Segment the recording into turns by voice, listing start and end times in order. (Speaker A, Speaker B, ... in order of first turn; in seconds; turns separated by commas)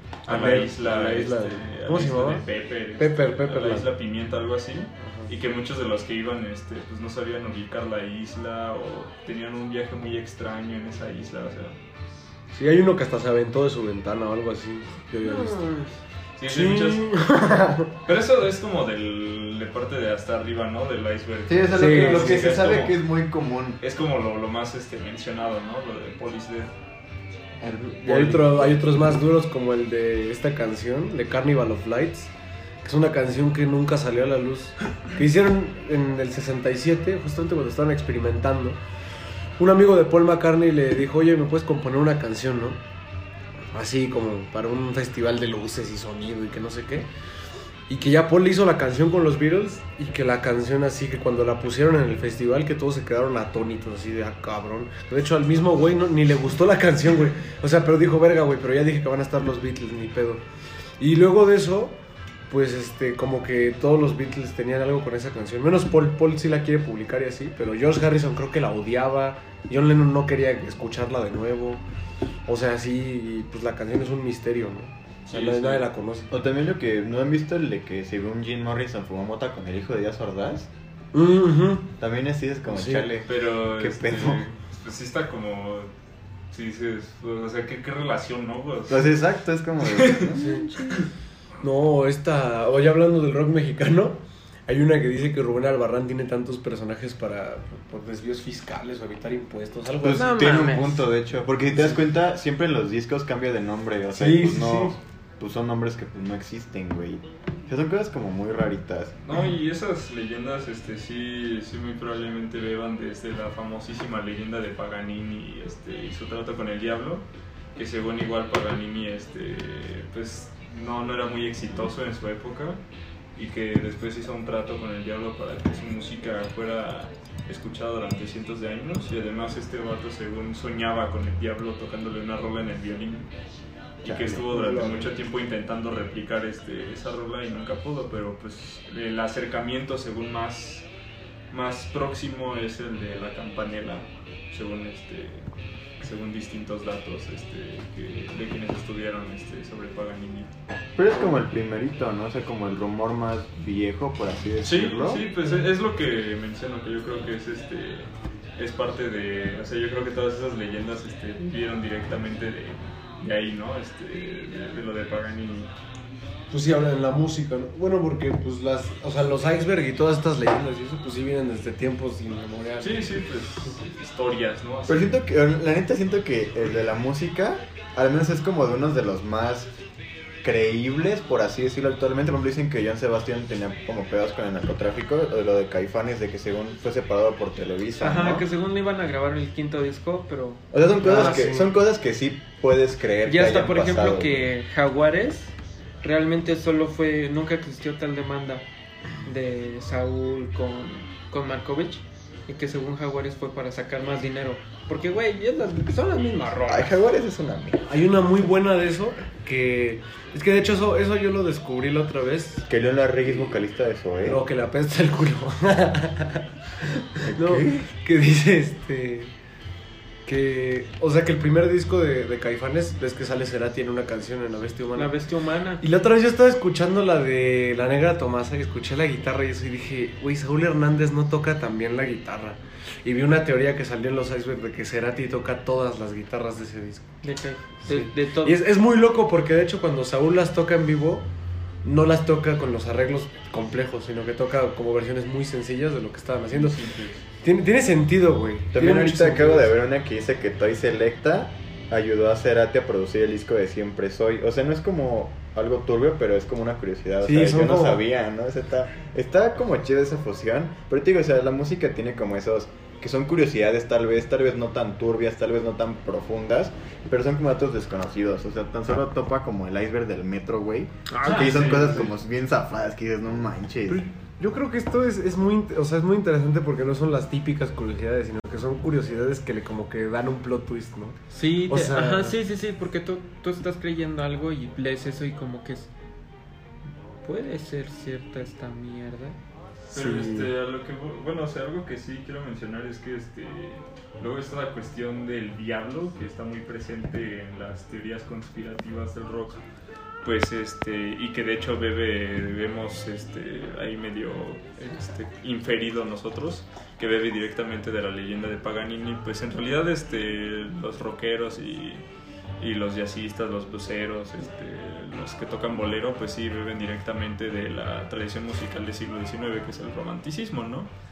Speaker A: 0.2-11.8, Speaker B: 0.3-2.4, Speaker B: 3.0-3.9, Speaker B: 12.5-15.7, Speaker C: 15.2-15.9, Speaker A: 16.4-17.2, Speaker B: 16.5-17.9, Speaker A: 18.1-23.0, Speaker D: 21.5-23.8, Speaker B: 21.7-22.6, Speaker A: 23.8-26.7, Speaker B: 27.6-32.3, Speaker A: 27.6-29.1, Speaker B: 32.8-38.8, Speaker B: 39.6-42.8, Speaker B: 43.7-47.1, Speaker B: 47.9-60.4, Speaker B: 61.0-62.0, Speaker B: 62.5-71.8, Speaker B: 72.5-76.3, Speaker A: 75.3-75.9, Speaker D: 76.3-80.7, Speaker B: 81.1-81.9, Speaker D: 82.0-84.5, Speaker B: 82.7-83.1, Speaker A: 83.3-85.9, Speaker A: 86.5-89.1, Speaker D: 88.9-91.0, Speaker A: 89.8-90.3, Speaker B: 90.4-90.7, Speaker B: 91.6-100.3, Speaker D: 100.0-109.2, Speaker C: 100.1-101.1, Speaker B: 101.7-102.0, Speaker B: 104.1-105.0, Speaker A: 109.2-122.8, Speaker A: 123.4-133.3, Speaker A: 134.0-140.9, Speaker D: 134.1-134.4, Speaker B: 134.3-135.1, Speaker A: 141.5-145.5, Speaker A: 146.0-150.5, Speaker D: 151.0-155.3, Speaker A: 154.6-165.7, Speaker B: 166.5-173.2, Speaker A: 172.8-175.2, Speaker D: 174.9-179.7, Speaker D: 180.4-188.5, Speaker C: 188.0-191.4, Speaker D: 190.7-194.5, Speaker B: 191.0-191.7, Speaker C: 193.3-198.7, Speaker C: 199.2-206.9, Speaker D: 206.7-207.9, Speaker B: 207.9-212.7, Speaker D: 212.7-214.4, Speaker B: 213.3-213.6, Speaker B: 214.2-216.5, Speaker B: 217.2-219.3, Speaker D: 217.2-217.9, Speaker B: 220.3-225.1, Speaker C: 224.9-225.8, Speaker B: 225.8-237.1, Speaker C: 237.2-238.6, Speaker B: 237.8-241.3, Speaker B: 241.8-246.8, Speaker A: 246.5-247.2, Speaker B: 247.4-249.7, Speaker D: 248.7-274.0, Speaker B: 257.2-258.0, Speaker C: 271.2-271.7, Speaker A: 271.3-272.1, Speaker B: 271.6-271.9, Speaker B: 273.9-282.4, Speaker C: 281.3-285.9, Speaker C: 287.2-289.4, Speaker A: 289.9-299.6, Speaker B: 289.9-290.5, Speaker A: 300.2-312.0, Speaker A: 312.6-320.9